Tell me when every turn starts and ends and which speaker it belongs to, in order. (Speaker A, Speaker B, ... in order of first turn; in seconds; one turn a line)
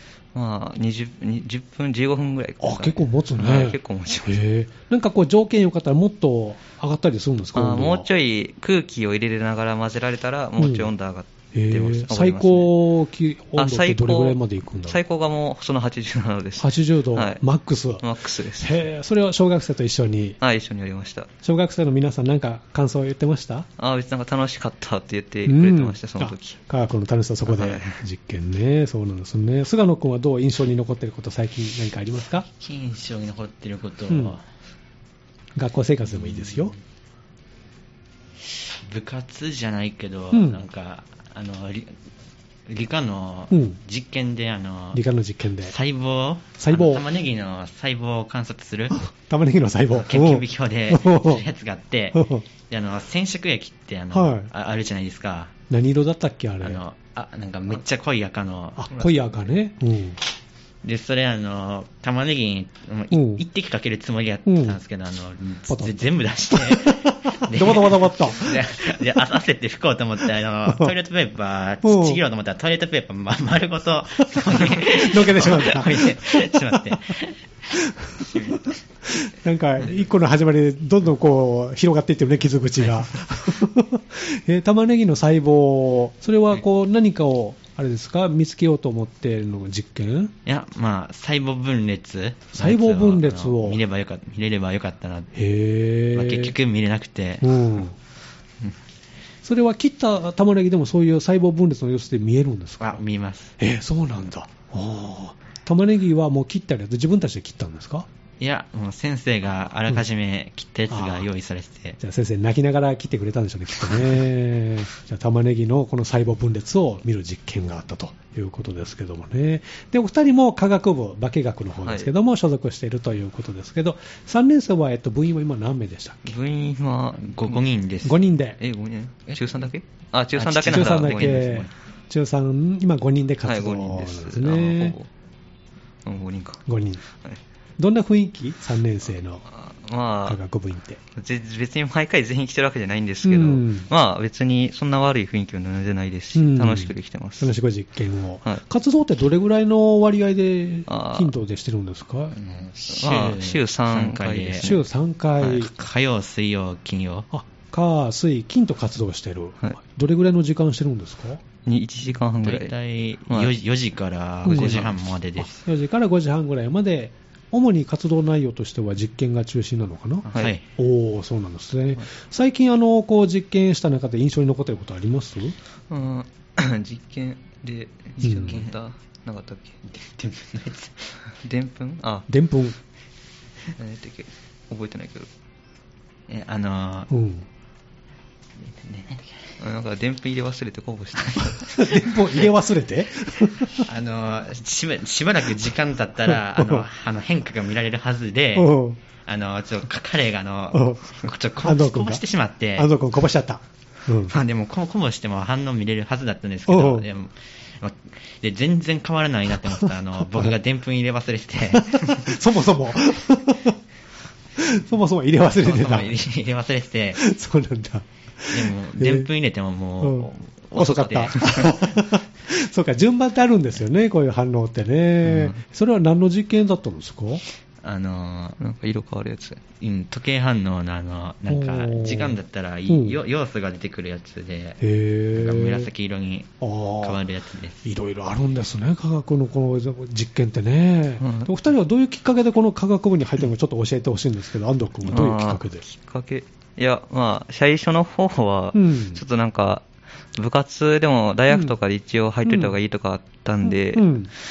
Speaker A: 0.3-4.4
Speaker B: 2.6-8.1
Speaker A: 7.5-12.7
Speaker B: 10.6-10.9
Speaker B: 11.5-15.0
Speaker A: 13.6-17.4
Speaker B: 16.6-18.1
Speaker A: 18.0-18.8
Speaker B: 18.6-20.4
Speaker A: 20.4-21.3
Speaker B: 21.4-23.7
Speaker A: 23.8-26.6
Speaker B: 25.5-32.5
Speaker A: 27.5-28.0
Speaker C: 32.6-34.4
Speaker B: 34.1-34.4
Speaker B: 35.6-36.7
Speaker C: 36.1-36.8
Speaker C: 38.9-41.9
Speaker B: 40.3-40.6
Speaker C: 42.7-45.0
Speaker B: 43.5-43.8
Speaker B: 44.9-45.8
Speaker C: 45.6-49.0
Speaker B: 46.6-47.0
Speaker B: 48.9-51.4
Speaker C: 49.9-55.5
Speaker B: 52.1-52.5
Speaker B: 54.1-54.5
Speaker B: 55.7-56.8
Speaker C: 56.6-59.1
Speaker B: 58.8-60.2
Speaker C: 60.8-77.4
Speaker B: 63.1-63.4
Speaker B: 64.5-64.8
Speaker B: 65.7-66.0
Speaker B: 66.5-69.0
Speaker B: 70.7-70.9
Speaker B: 71.8-72.2
Speaker B: 74.3-77.0
Speaker B: 78.0-90.3
Speaker C: 78.2-78.8
Speaker C: 90.5-95.3
Speaker B: 92.5-93.8
Speaker B: 95.3-96.5
Speaker C: 96.1-97.5
Speaker B: 97.4-97.9
Speaker B: 99.4-103.0
Speaker C: 102.8-103.5
Speaker B: 103.6-108.1
Speaker C: 108.4-112.0
Speaker B: 110.9-111.3
Speaker B: 112.0-126.2
Speaker A: 126.2-127.6
Speaker C: 127.2-128.2
Speaker B: 128.1-128.6
Speaker A: 128.6-131.6
Speaker C: 129.3-129.7
Speaker C: 130.3-131.7
Speaker B: 130.6-134.9
Speaker A: 133.4-135.1
Speaker A: 136.1-136.6
Speaker B: 136.7-137.0
Speaker B: 137.8-139.4
Speaker A: 139.5-140.4
Speaker B: 140.3-141.0
Speaker A: 141.2-147.5
Speaker B: 143.2-143.9
Speaker B: 146.3-152.4
Speaker A: 150.9-151.3
Speaker C: 152.3-154.8
Speaker A: 152.9-154.8
Speaker B: 154.6-155.7
Speaker C: 155.4-157.3
Speaker B: 157.3-161.4
Speaker A: 161.7-162.7
Speaker C: 162.4-165.6
Speaker B: 164.4-175.6
Speaker A: 170.3-170.6
Speaker C: 170.3-170.7
Speaker A: 175.9-179.8
Speaker B: 178.2-178.6
Speaker C: 178.4-178.8
Speaker C: 179.9-181.1
Speaker A: 181.4-182.3
Speaker B: 182.3-182.8
Speaker A: 183.8-185.3
Speaker C: 186.3-187.1
Speaker B: 187.1-187.5
Speaker C: 188.6-189.3
Speaker A: 189.6-191.9
Speaker C: 191.2-191.4
Speaker B: 191.7-193.9
Speaker C: 193.8-198.7
Speaker B: 196.3-196.9
Speaker B: 198.6-199.0
Speaker C: 199.2-202.9
Speaker B: 200.7-202.2
Speaker B: 202.8-204.4
Speaker C: 204.3-212.4
Speaker B: 206.7-207.1
Speaker B: 211.7-213.8
Speaker B: 214.6-216.2
Speaker C: 215.6-217.2
Speaker B: 217.2-219.3
Speaker C: 218.5-221.8
Speaker B: 220.0-227.4
Speaker A: 225.3-225.6
Speaker C: 227.8-228.6
Speaker A: 228.6-229.7
Speaker C: 229.7-234.8
Speaker B: 231.5-232.4
Speaker B: 232.9-233.2
Speaker B: 234.8-235.9
Speaker C: 235.3-237.8
Speaker B: 236.6-237.2
Speaker B: 237.8-245.8
Speaker A: 241.2-241.5
Speaker A: 245.1-254.1
Speaker B: 248.7-249.2
Speaker B: 252.4-252.8
Speaker B: 253.7-254.3